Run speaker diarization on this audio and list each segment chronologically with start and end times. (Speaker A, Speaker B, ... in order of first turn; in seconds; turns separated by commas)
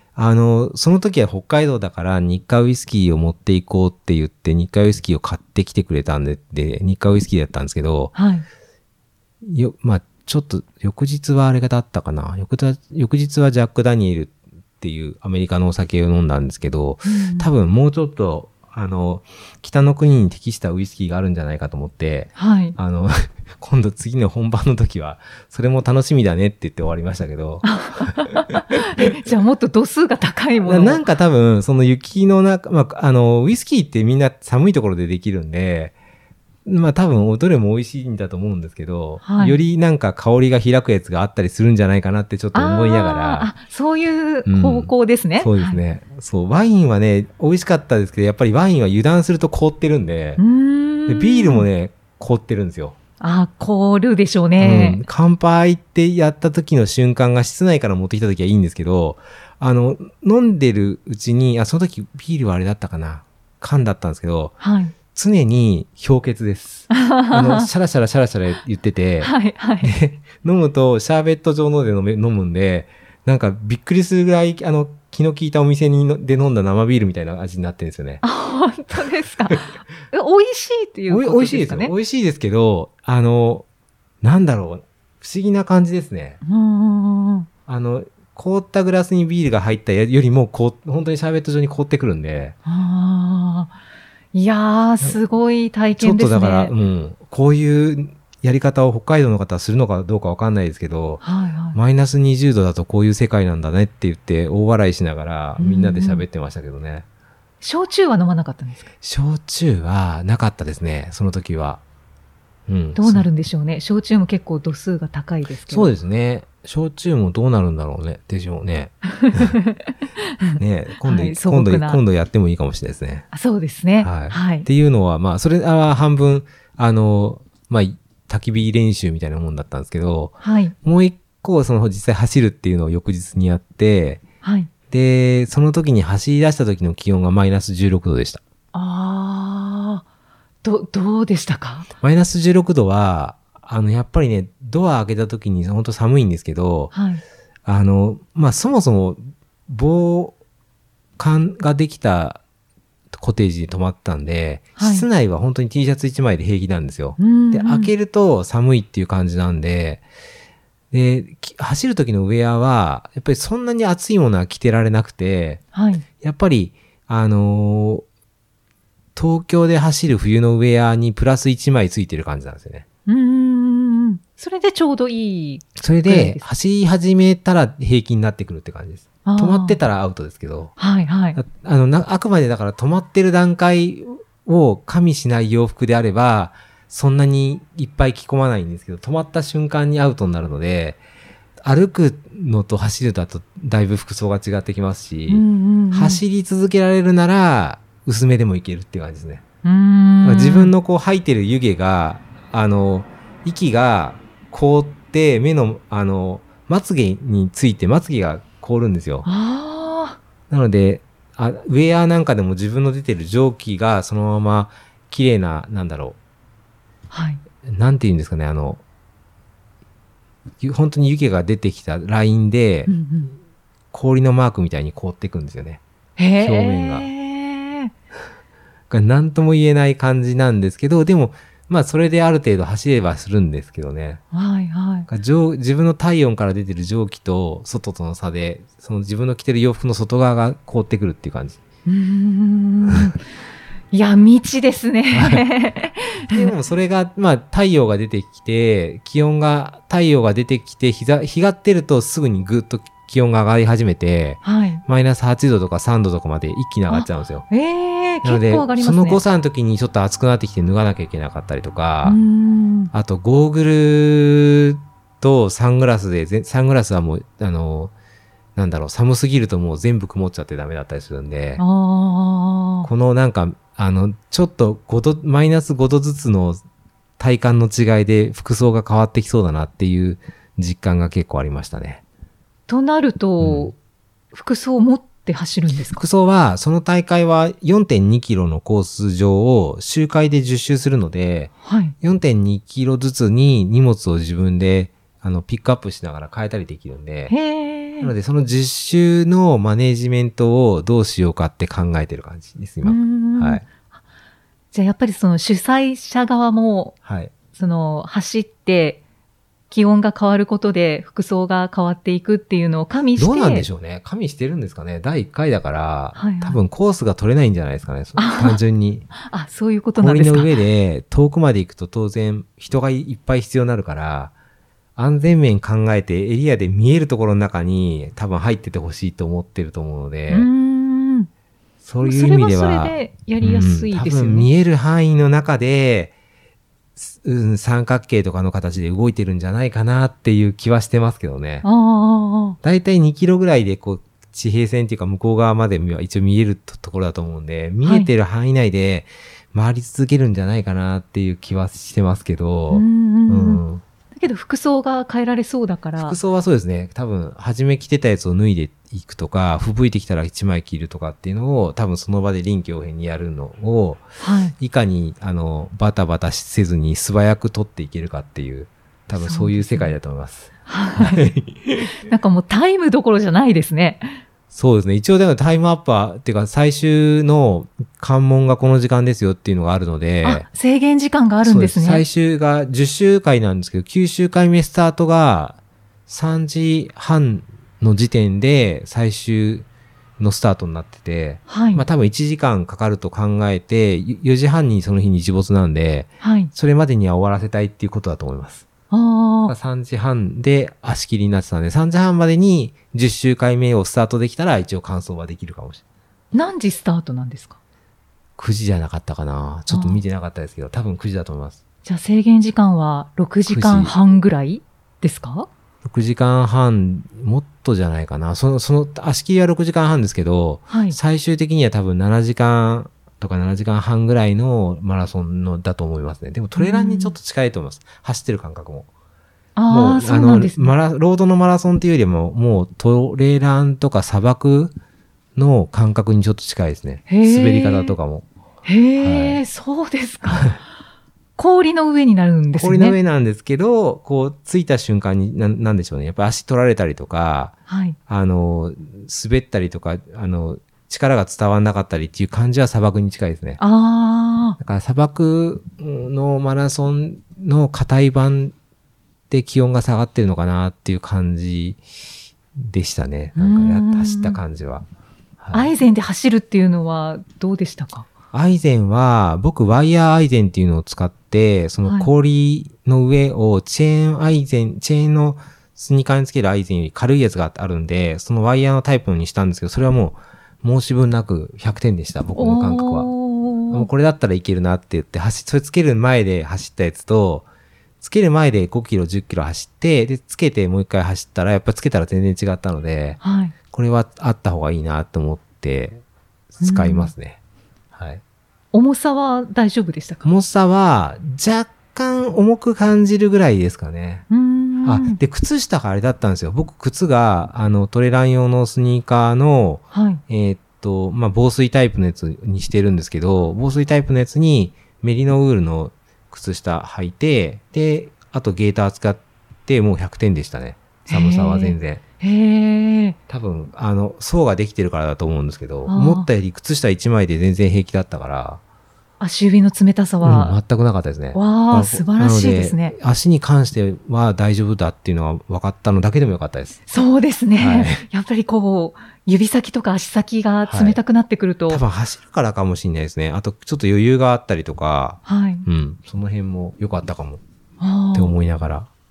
Speaker A: 0.2-8.1, Speaker B: 8.2-8.5, Speaker A: 9.4-29.1, Speaker B: 17.1-17.5, Speaker B: 22.4-22.8, Speaker B: 27.6-31.1, Speaker A: 30.6-36.0, Speaker A: 36.6-43.5, Speaker B: 39.2-39.6, Speaker B: 42.5-45.8, Speaker A: 44.5-50.4, Speaker B: 50.4-51.7, Speaker A: 51.1-53.0, Speaker B: 53.2-55.0, Speaker A: 54.6-64.6, Speaker B: 64.6-65.0, Speaker A: 65.1-78.2, Speaker B: 66.9-67.7, Speaker B: 69.2-69.9, Speaker B: 78.2-81.9, Speaker A: 81.1-83.7, Speaker A: 84.2-86.4, Speaker B: 86.4-87.5, Speaker A: 87.7-92.6, Speaker B: 92.7-93.7, Speaker B: 94.3-96.7, Speaker A: 96.0-101.2, Speaker B: 101.2-101.8, Speaker A: 101.7-107.0, Speaker B: 105.6-106.2, Speaker B: 107.6-108.9, Speaker A: 109.0-111.8, Speaker A: 112.7-113.3, Speaker B: 113.0-115.9, Speaker A: 115.7-119.5, Speaker B: 119.2-122.0, Speaker A: 120.6-123.3, Speaker B: 123.3-124.7, Speaker A: 124.0-134.2, Speaker B: 130.4-130.8, Speaker B: 134.4-134.7, Speaker A: 134.9-138.4, Speaker B: 138.7-140.0, Speaker B: 140.6-141.9, Speaker A: 142.0-146.9, Speaker B: 146.9-147.2, Speaker A: 147.7-150.4, Speaker A: 151.2-152.4, Speaker A: 153.1-160.0, Speaker B: 154.8-155.1, Speaker B: 157.2-157.9, Speaker A: 160.9-165.6, Speaker B: 165.7-166.1, Speaker A: 166.2-168.1, Speaker A: 169.2-172.9, Speaker B: 173.1-176.4, Speaker A: 175.8-180.7, Speaker B: 179.2-179.8, Speaker B: 180.8-181.4, Speaker A: 181.4-191.0, Speaker A: 191.6-199.4, Speaker B: 195.3-196.2, Speaker B: 199.6-200.7, Speaker A: 200.2-209.3, Speaker B: 209.2-210.2, Speaker A: 210.5-216.2, Speaker B: 217.1-217.4, Speaker A: 217.6-218.8, Speaker A: 220.6-222.9, Speaker B: 222.9-223.4, Speaker A: 223.9-225.8, Speaker B: 226.2-227.9, Speaker A: 226.4-227.1, Speaker A: 228.9-234.2, Speaker B: 234.3-235.1, Speaker A: 235.1-241.6, Speaker B: 241.9-243.2, Speaker B: 243.9-246.5, Speaker A: 245.1-245.4, Speaker A: 246.3-257.5, Speaker B: 254.4-254.8, Speaker B: 256.9-259.2, Speaker A: 258.2-262.2, Speaker B: 262.0-262.9, Speaker A: 262.9-267.9, Speaker A: 268.6-271.6, Speaker B: 271.6-272.9, Speaker A: 272.8-276.6, Speaker A: 277.2-282.0, Speaker B: 282.7-283.8, Speaker A: 283.4-283.7, Speaker B: 284.3-286.0, Speaker A: 285.9-297.3, Speaker B: 291.6-291.9, Speaker B: 297.3-298.1, Speaker A: 298.0-303.6, Speaker B: 302.8-303.6, Speaker B: 304.7-307.0, Speaker A: 307.0-307.3, Speaker B: 307.5-309.0, Speaker B: 309.7-313.7, Speaker A: 313.2-319.1, Speaker B: 316.2-316.6, Speaker B: 318.2-318.6, Speaker B: 319.2-320.6, Speaker A: 320.0-324.3, Speaker A: 325.0-330.5, Speaker B: 330.3-331.3, Speaker A: 331.8-336.1, Speaker B: 332.0-334.5, Speaker A: 337.0-341.6, Speaker B: 341.6-342.6, Speaker A: 342.6-353.8, Speaker B: 347.8-348.1, Speaker B: 352.7-353.6, Speaker B: 354.1-356.2, Speaker A: 356.0-364.1, Speaker B: 364.2-364.6, Speaker A: 364.6-371.9, Speaker B: 369.2-370.0, Speaker B: 370.7-371.2, Speaker B: 371.9-374.2, Speaker A: 374.5-380.5, Speaker B: 380.2-382.0, Speaker A: 381.4-389.7, Speaker A: 390.2-398.7, Speaker B: 391.5-391.9, Speaker B: 396.2-396.5, Speaker B: 398.9-399.5, Speaker A: 399.5-405.8, Speaker B: 406.3-407.6, Speaker A: 408.4-411.6, Speaker B: 409.7-410.0, Speaker B: 411.9-415.5, Speaker A: 413.5-413.9, Speaker A: 415.8-428.9, Speaker B: 420.7-421.0, Speaker B: 426.6-427.2, Speaker B: 429.6-430.7, Speaker A: 429.7-434.7, Speaker A: 435.4-438.3, Speaker B: 437.1-438.0, Speaker B: 438.6-440.6, Speaker A: 439.0-439.4, Speaker A: 440.3-440.6, Speaker B: 441.4-443.0, Speaker A: 442.5-447.6, Speaker B: 447.7-448.0, Speaker A: 448.1-453.6, Speaker B: 453.6-454.6, Speaker A: 454.6-458.5, Speaker A: 459.3-461.8, Speaker A: 462.6-464.9, Speaker B: 463.4-464.4, Speaker A: 465.4-465.7, Speaker B: 465.5-468.1, Speaker A: 468.3-483.1, Speaker B: 482.4-483.9, Speaker A: 483.7-487.5, Speaker A: 488.0-493.2, Speaker B: 493.2-493.6, Speaker A: 493.7-496.0, Speaker A: 496.5-497.4, Speaker B: 496.6-497.1, Speaker A: 497.9-498.2, Speaker B: 498.7-500.2, Speaker A: 500.2-504.3, Speaker B: 504.3-505.2, Speaker A: 504.8-522.0, Speaker B: 509.9-510.2, Speaker B: 521.1-523.2, Speaker A: 523.3-528.6, Speaker B: 525.9-526.3, Speaker B: 529.2-530.6, Speaker A: 530.2-536.8, Speaker B: 531.4-533.0, Speaker B: 536.9-541.8, Speaker A: 537.6-538.0, Speaker A: 540.7-541.0, Speaker A: 541.7-547.4, Speaker B: 545.2-545.7, Speaker B: 547.8-548.3, Speaker A: 548.1-548.9